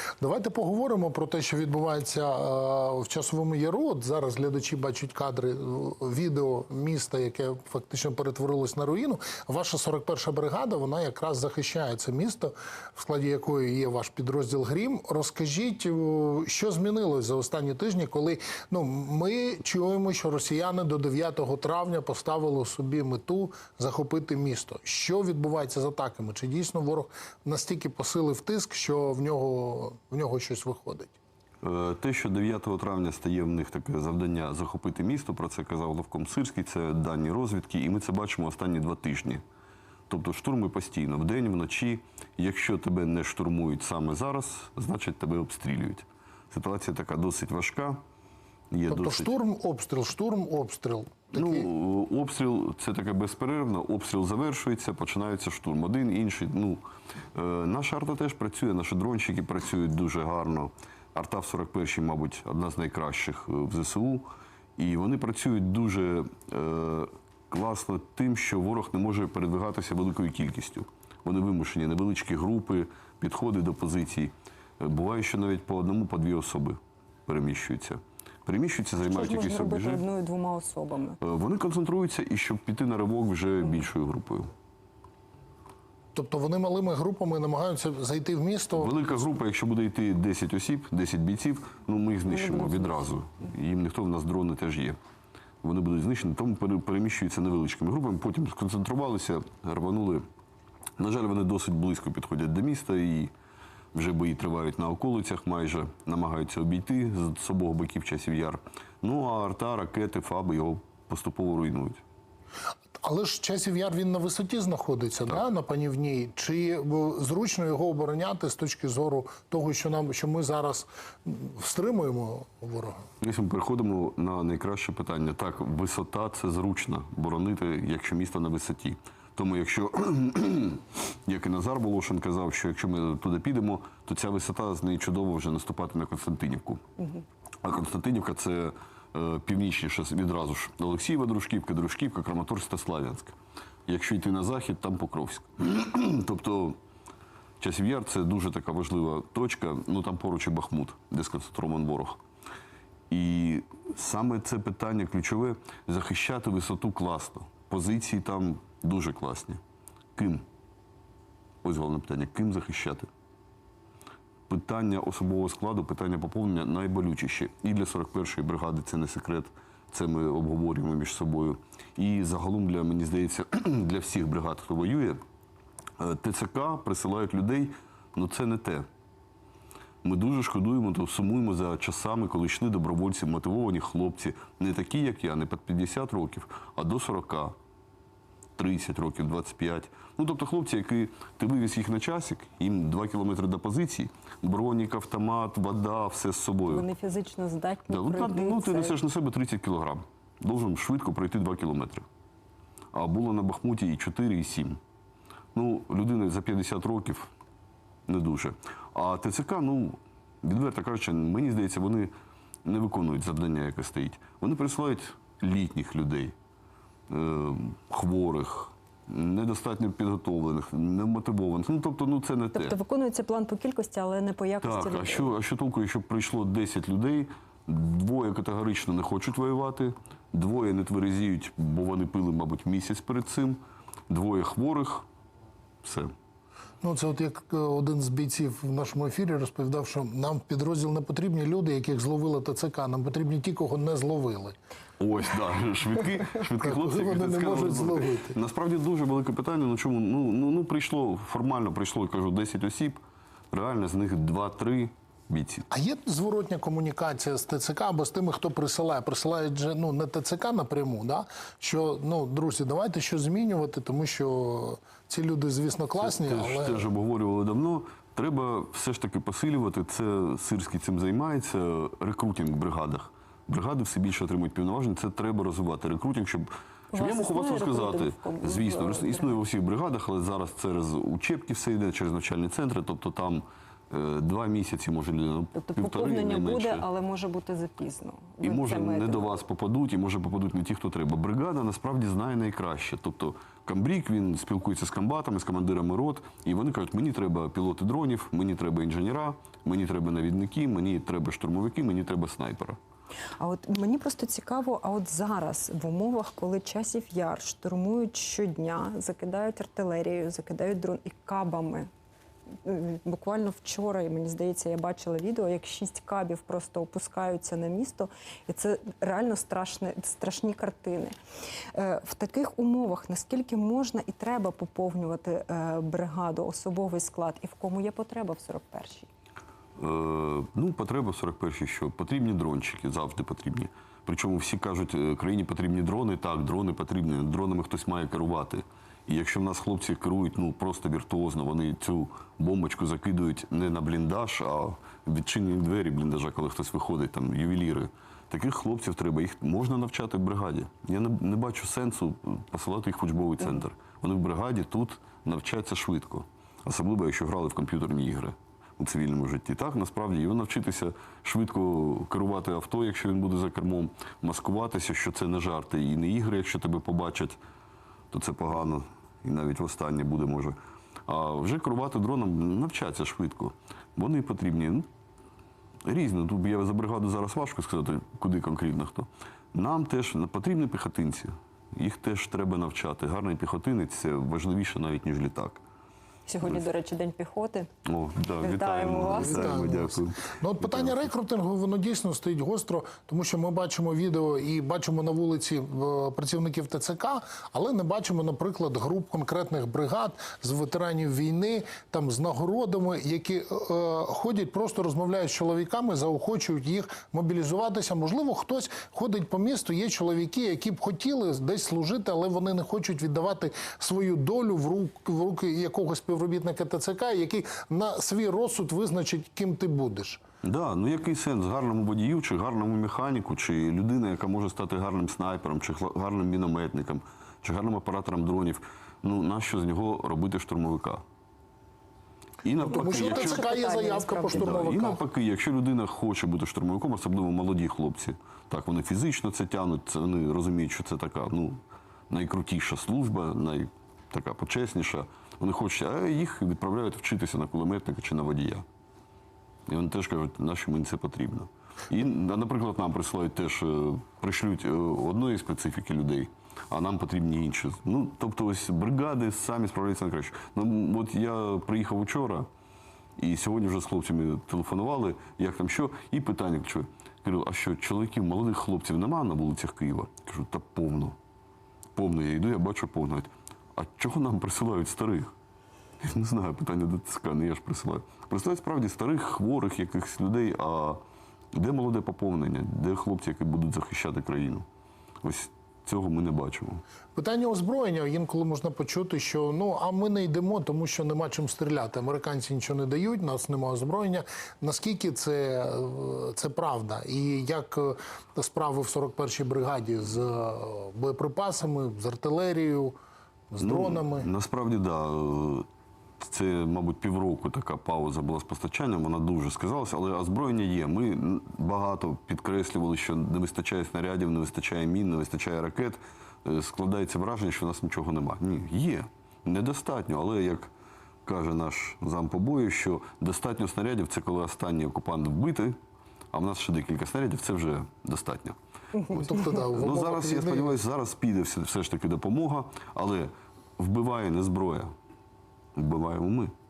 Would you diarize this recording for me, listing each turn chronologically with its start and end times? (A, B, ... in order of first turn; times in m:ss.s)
0:00.2-0:31.1 A
0:31.6-0:39.4 B
0:40.1-0:48.0 B
0:48.7-0:49.3 B
0:48.9-0:51.7 A
0:51.3-0:56.8 B
0:57.3-1:04.2 B
1:04.8-1:20.0 B
1:19.0-1:21.2 C
1:21.2-1:24.5 B
1:26.1-1:29.2 A
1:28.7-1:35.0 B
1:35.6-1:40.2 B
1:41.0-1:43.3 B
1:43.9-1:52.0 B
1:53.0-2:03.0 A
2:03.2-2:16.8 B
2:17.6-2:23.3 B
2:23.9-2:26.8 B
2:27.6-2:32.2 B
2:33.1-2:39.6 B
2:40.2-2:40.4 B
2:41.6-2:43.1 B
2:44.5-2:55.2 B
2:56.0-2:58.8 B
3:00.0-3:07.5 B
3:08.6-3:16.8 B
3:16.7-3:19.0 C
3:17.9-3:22.0 B
3:22.9-3:24.8 B
3:25.5-3:27.3 B
3:28.1-3:32.1 B
3:32.6-3:36.3 B
3:37.1-3:42.8 B
3:42.5-3:45.3 C
3:44.6-3:55.0 B
3:55.8-3:56.1 B
3:56.8-4:04.6 A
4:05.0-4:15.7 B
4:06.6-4:08.4 A
4:15.7-4:26.9 A
4:26.0-4:46.8 B
4:36.9-4:39.4 C
4:45.5-4:49.3 C
4:48.4-5:02.8 B
5:03.4-5:11.9 C
5:12.6-5:21.1 C
5:21.7-5:29.1 C
5:29.8-6:07.4 B
6:08.1-6:14.9 B
6:15.9-6:25.6 B
6:26.3-6:27.7 C
6:27.8-6:30.9 B
6:28.4-6:29.6 C
6:29.0-7:00.2 A
7:00.4-7:11.0 B
7:12.4-7:13.6 B
7:12.6-7:15.0 A
7:12.7-7:14.6 C
7:14.3-7:21.6 B
7:22.1-7:28.6 B
7:29.7-7:42.5 B
7:43.2-7:51.2 B
7:52.0-7:55.3 B
7:56.0-8:01.0 B
8:01.5-8:04.6 B
8:05.2-8:06.8 B
8:07.1-8:23.0 A
8:23.5-8:24.3 A
8:23.6-8:25.6 B
8:26.2-8:40.7 B
8:41.2-8:45.8 B
8:46.3-8:54.9 B
8:49.1-8:50.7 A
8:55.8-8:56.5 B